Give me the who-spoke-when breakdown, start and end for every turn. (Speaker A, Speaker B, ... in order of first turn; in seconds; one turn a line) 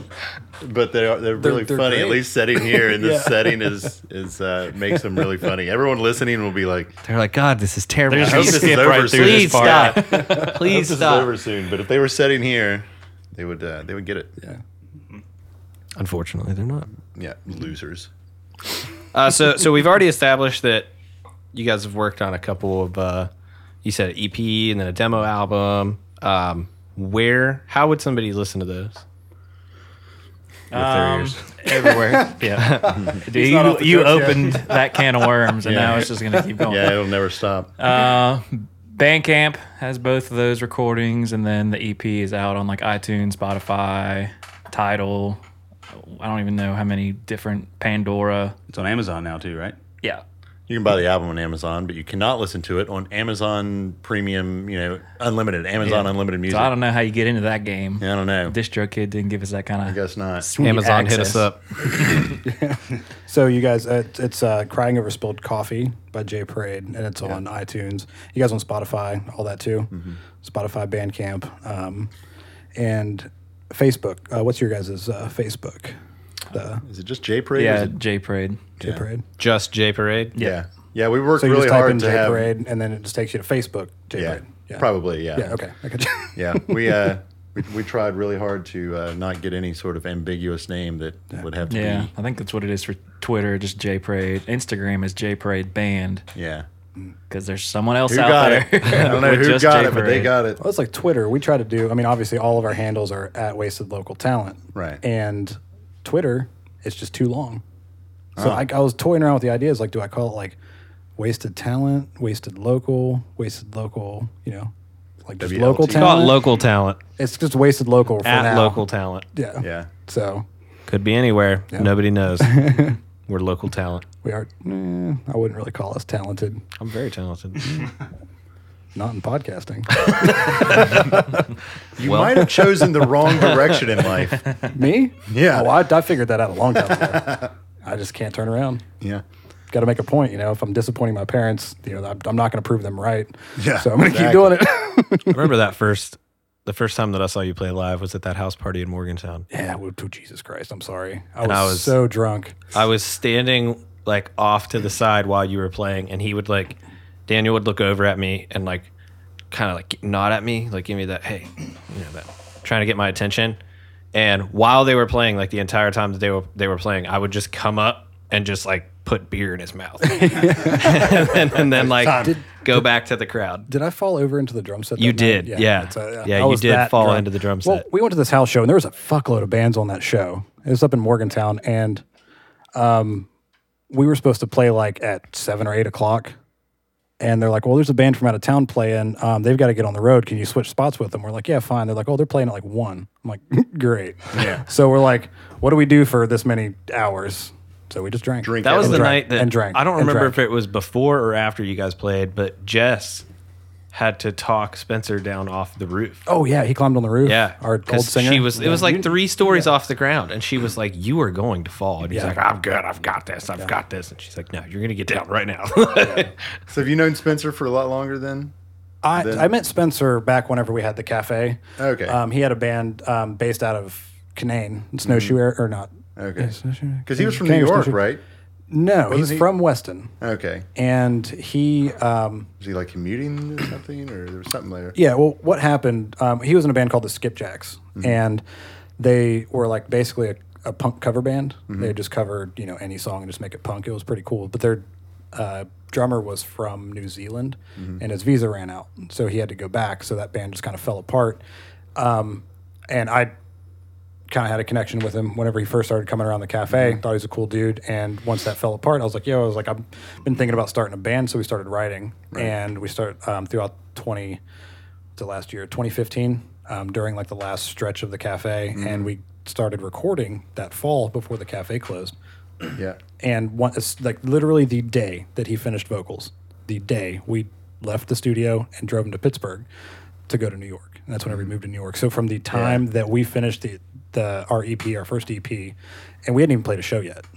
Speaker A: 0.6-7.0
Speaker B: 1.4-3.7
Speaker C: 7.0-11.4
Speaker D: 8.1-10.6
Speaker A: 8.2-14.3
Speaker C: 16.0-16.9
Speaker A: 17.2-18.1
Speaker C: 19.1-20.9
Speaker C: 21.5-23.3
Speaker C: 23.8-29.0
Speaker D: 30.7-37.0
Speaker E: 30.7-31.6
Speaker C: 32.5-33.1
Speaker A: 33.0-34.5
Speaker A: 35.6-36.1
Speaker A: 36.6-37.7
Speaker D: 37.8-45.4
Speaker D: 45.9-48.5
Speaker E: 48.7-49.8
Speaker A: 50.7-56.7
Speaker D: 55.8-62.3
Speaker A: 58.0-58.5
Speaker A: 59.9-60.5
Speaker C: 60.6-61.6
Speaker B: 62.4-72.1
Speaker A: 69.9-70.2
Speaker B: 72.8-76.0
Speaker B: 76.5-76.8
Speaker A: 76.8-78.0
Speaker D: 77.5-78.7
Speaker A: 78.8-79.0
Speaker B: 78.8-79.2
Speaker C: 79.4-80.3
Speaker A: 80.3-82.5
Speaker B: 81.4-87.2
Speaker A: 84.2-85.6
Speaker A: 86.3-92.1
Speaker D: 91.7-96.2
Speaker A: 96.3-96.7
Speaker D: 97.3-100.3
Speaker A: 98.1-100.6
Speaker B: 100.6-107.6
Speaker A: 104.7-105.0
Speaker A: 108.4-108.7
Speaker B: 108.4-110.6
Speaker B: 111.2-114.7
Speaker B: 115.2-116.4
Speaker A: 115.4-116.3
Speaker C: 115.9-117.0
Speaker B: 117.2-120.5
Speaker C: 118.2-119.2
Speaker A: 119.6-119.9
Speaker C: 120.9-124.0
Speaker B: 121.7-123.0
Speaker B: 124.2-126.6
Speaker C: 126.8-127.8
Speaker B: 128.9-131.3
Speaker C: 130.5-130.8
Speaker A: 132.0-134.6
Speaker C: 132.0-132.6
Speaker B: 134.7-138.8
Speaker A: 135.3-135.8
Speaker A: 137.0-137.5
Speaker B: 139.7-145.5
Speaker A: 143.6-144.7
Speaker C: 145.3-149.5
Speaker B: 149.5-152.6
Speaker C: 151.4-152.0
Speaker C: 152.7-158.9
Speaker C: 159.5-163.6
Speaker C: 164.1-173.7
Speaker B: 170.0-172.9
Speaker A: 171.7-172.3
Speaker B: 173.7-182.0
Speaker C: 175.0-177.8
Speaker B: 182.7-183.3
Speaker B: 183.9-186.4
Speaker B: 187.2-200.4
Speaker A: 194.3-194.6
Speaker A: 198.4-199.2
Speaker C: 198.6-203.2
Speaker C: 203.9-206.2
Speaker B: 206.3-209.7
Speaker C: 207.2-216.3
Speaker B: 212.1-212.4
Speaker B: 216.0-216.3
Speaker A: 216.7-218.5
Speaker B: 219.0-228.0
Speaker A: 219.2-219.5
Speaker A: 221.8-222.2
Speaker A: 225.0-225.4
Speaker A: 226.2-226.6
Speaker A: 227.1-228.2
Speaker B: 228.7-230.2
Speaker A: 229.1-229.5
Speaker A: 230.2-230.7
Speaker B: 230.8-232.5
Speaker A: 232.6-235.0
Speaker B: 234.9-238.4
Speaker B: 239.0-251.4
Speaker B: 251.9-253.3
Speaker B: 254.3-264.4
Speaker A: 256.7-257.0
Speaker B: 265.2-272.1
Speaker A: 268.8-269.1
Speaker B: 273.2-279.7
Speaker B: 280.3-287.2
Speaker A: 282.5-282.8